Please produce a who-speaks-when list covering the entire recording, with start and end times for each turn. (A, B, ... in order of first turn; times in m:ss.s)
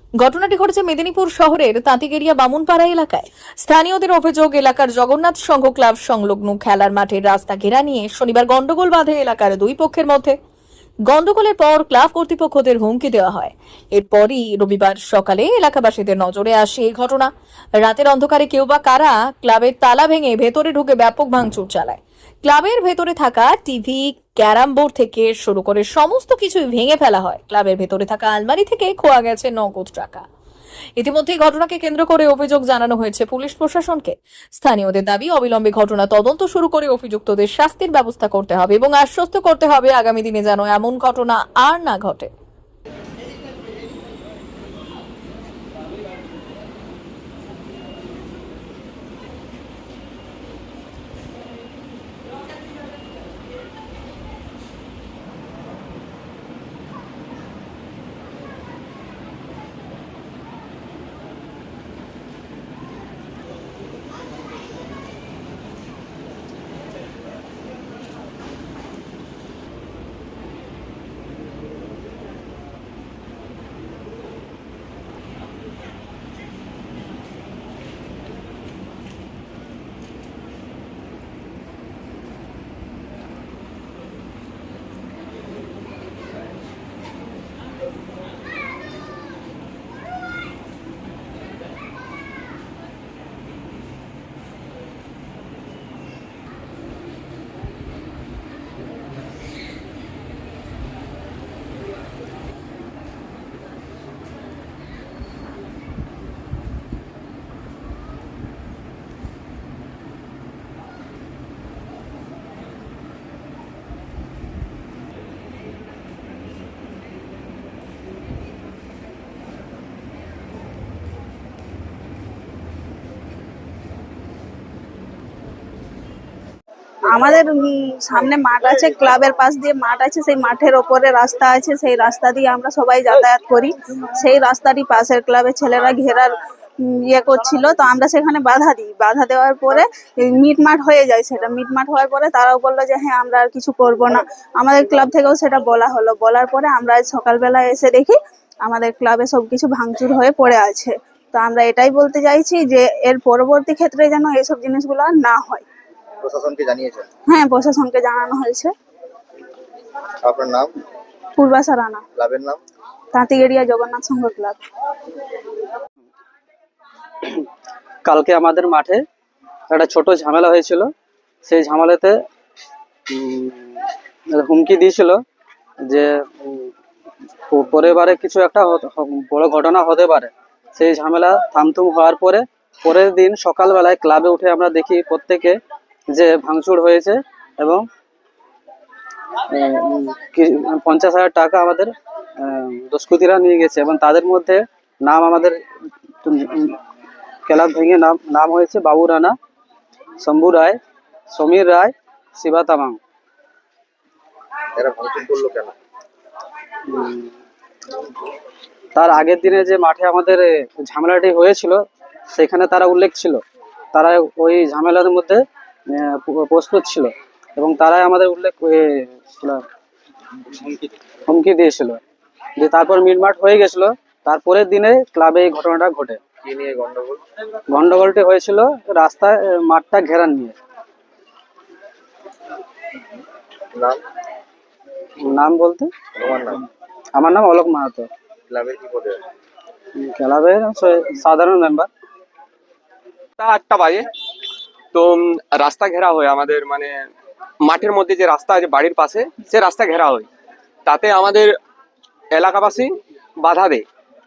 0:00.2-0:10.4 A
0:11.1-0:30.2 A
0:31.0-0:42.3 A
2:07.1-2:35.6 B
2:36.2-2:37.1 C
2:37.3-2:38.7 B
2:40.2-2:40.7 C
2:41.4-2:42.0 B
2:42.2-2:42.6 C
2:43.1-2:44.6 B
2:48.0-2:49.0 D
2:49.7-2:50.9 D
2:51.4-2:52.2 D
2:53.1-2:55.2 D
2:55.9-2:56.7 D
2:57.5-3:05.6 D
3:06.1-3:07.8 D
3:09.5-3:15.6 D
3:16.2-3:16.8 D
3:17.5-3:19.3 D
3:20.2-3:20.8 D
3:21.3-3:23.0 D
3:24.8-3:25.7 C
3:26.9-3:27.3 D
3:29.0-3:33.4 D
3:33.9-3:39.6 D
3:41.3-3:42.0 D
3:42.6-3:46.2 D
3:46.4-3:47.2 C
3:47.7-3:50.6 D
3:53.7-3:54.0 C
3:55.2-3:55.9 D
3:56.2-3:56.6 C
3:57.2-3:58.1 D
3:58.5-3:59.2 C
4:00.0-4:01.9 D
4:03.4-4:04.1 E
4:04.9-4:07.1 E
4:07.6-4:10.3 E
4:10.9-4:11.6 E
4:12.3-4:13.8 E